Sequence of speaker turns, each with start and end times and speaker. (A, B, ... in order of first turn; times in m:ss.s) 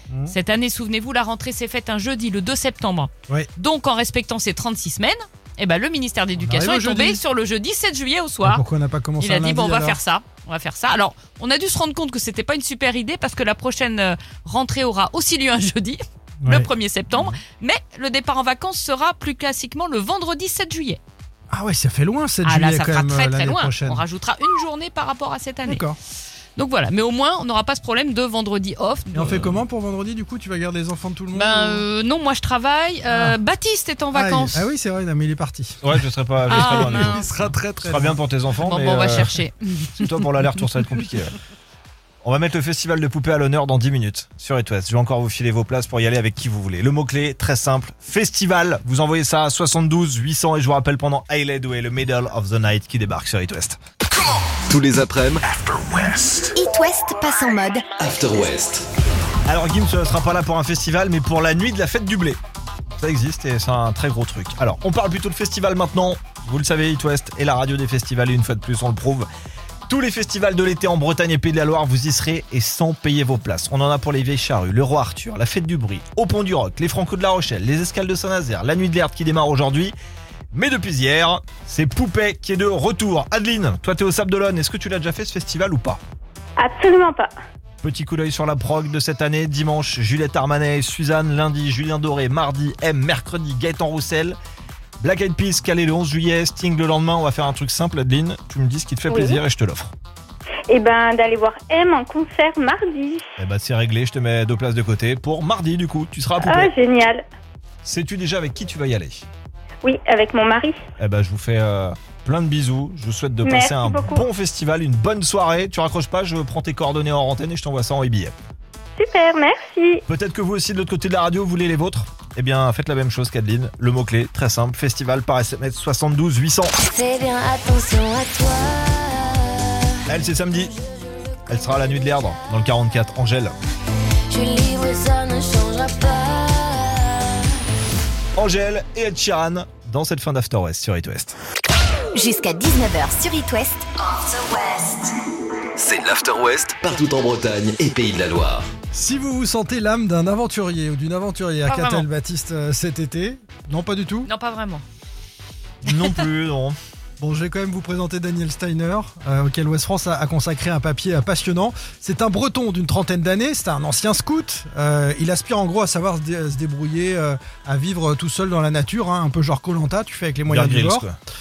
0:00.1-0:00.3 A
0:00.3-0:08.6 B
0:06.4-0:07.2 A
0:08.4-0:10.0 A
0:09.2-0:21.0 B
0:16.4-0:17.3 A
0:21.5-0:24.0 A
0:22.4-0:25.8 B
0:25.6-0:26.0 A
0:26.6-0:29.6 B
0:29.1-0:31.8 A
0:31.3-0:34.7 B
0:33.1-0:33.4 A
0:34.1-0:38.2 A
0:35.8-0:39.4 C
0:36.5-0:37.3 B
0:38.6-0:40.2 B
0:40.0-0:41.3 C
0:42.2-0:53.8 C
0:54.7-0:56.5 D
0:56.5-0:57.9 E
0:58.0-0:58.9 D
0:59.4-1:02.4 C
1:03.0-1:09.3 C
1:09.9-1:19.9 C
1:20.5-1:26.0 C
1:26.6-1:27.3 F
1:27.8-1:34.4 C
1:35.0-1:39.9 C
1:39.1-1:39.4 F
1:40.7-1:43.2 F
1:43.4-1:46.7 C
1:46.4-1:47.2 F
1:47.8-1:49.2 C
1:49.8-1:50.8 F
1:51.0-1:58.3 C
1:53.4-1:54.2 F
1:59.0-2:00.0 F
2:00.1-2:06.7 C
2:06.8-2:09.9 G
2:10.0-2:10.7 C
2:11.5-2:13.5 C
2:14.3-2:17.4 G
2:18.4-2:21.4 C
2:22.1-2:23.9 E
2:24.2-2:24.9 G
2:25.8-2:28.7 D
2:28.9-2:34.3 A
2:31.6-2:32.1 B
2:34.2-2:34.8 B
2:35.8-2:36.8 C
2:37.2-2:51.1 A
2:50.5-2:51.2 C